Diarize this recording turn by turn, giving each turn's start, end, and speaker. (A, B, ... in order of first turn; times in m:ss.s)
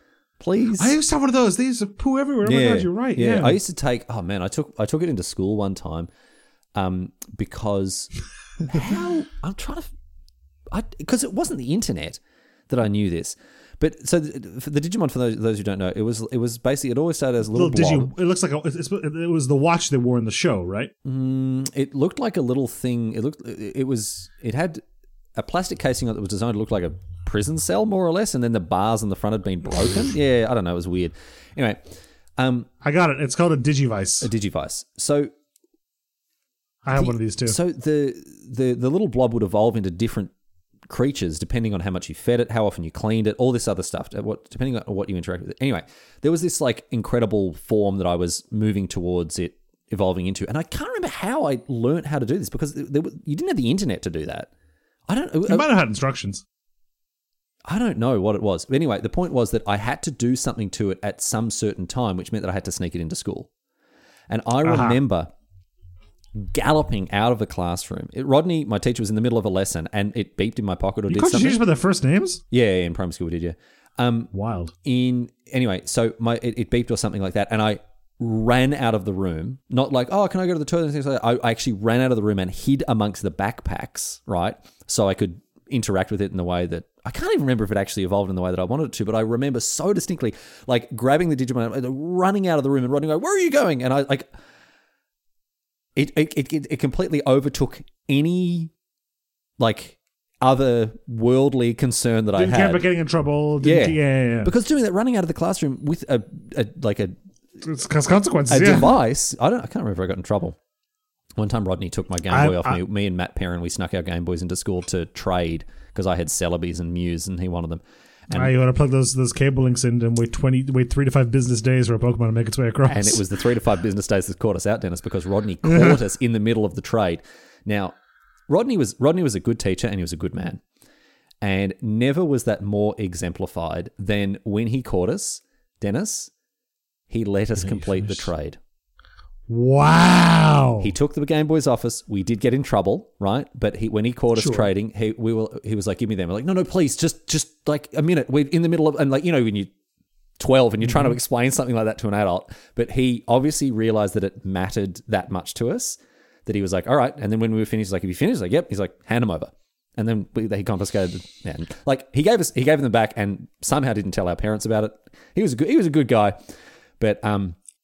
0:00.4-0:00.9 A
0:00.8-0:03.6 B
0:02.4-0:06.1 A
0:06.7-0:08.1 A
0:08.6-0:09.9 A
0:10.7-0:18.1 A
0:17.5-0:20.9 B
0:21.0-0:24.8 A
0:25.3-0:31.8 A
0:32.4-0:32.7 A
0:32.8-0:34.3 B
0:34.2-0:35.3 A
0:36.8-0:37.6 B
0:36.9-0:40.3 A
0:40.9-0:54.5 A
0:55.1-0:55.7 A
0:55.4-0:56.4 B
0:57.7-1:03.5 A
1:04.3-1:05.3 A
1:04.6-1:05.0 B
1:06.4-1:11.6 A
1:11.1-1:12.4 B
1:12.5-1:14.3 A
1:14.3-1:14.7 B
1:14.8-1:34.3 A
1:36.0-1:38.7 A
1:39.6-1:42.8 A
1:42.3-1:44.5 B
1:43.6-1:47.1 A
1:47.6-1:48.9 B
1:48.5-1:50.6 A
1:51.4-1:58.5 A
1:52.3-1:52.8 B
1:58.3-2:03.2 B
2:02.9-2:07.9 A
2:05.6-2:06.0 B
2:08.5-2:10.6 A
2:11.4-2:16.3 A
2:17.1-2:18.6 A
2:17.6-2:18.3 B
2:19.5-2:20.9 B
2:20.8-2:29.7 A
2:24.3-2:24.7 B
2:30.4-2:46.4 A
2:30.9-2:31.1 B
2:47.0-2:47.6 A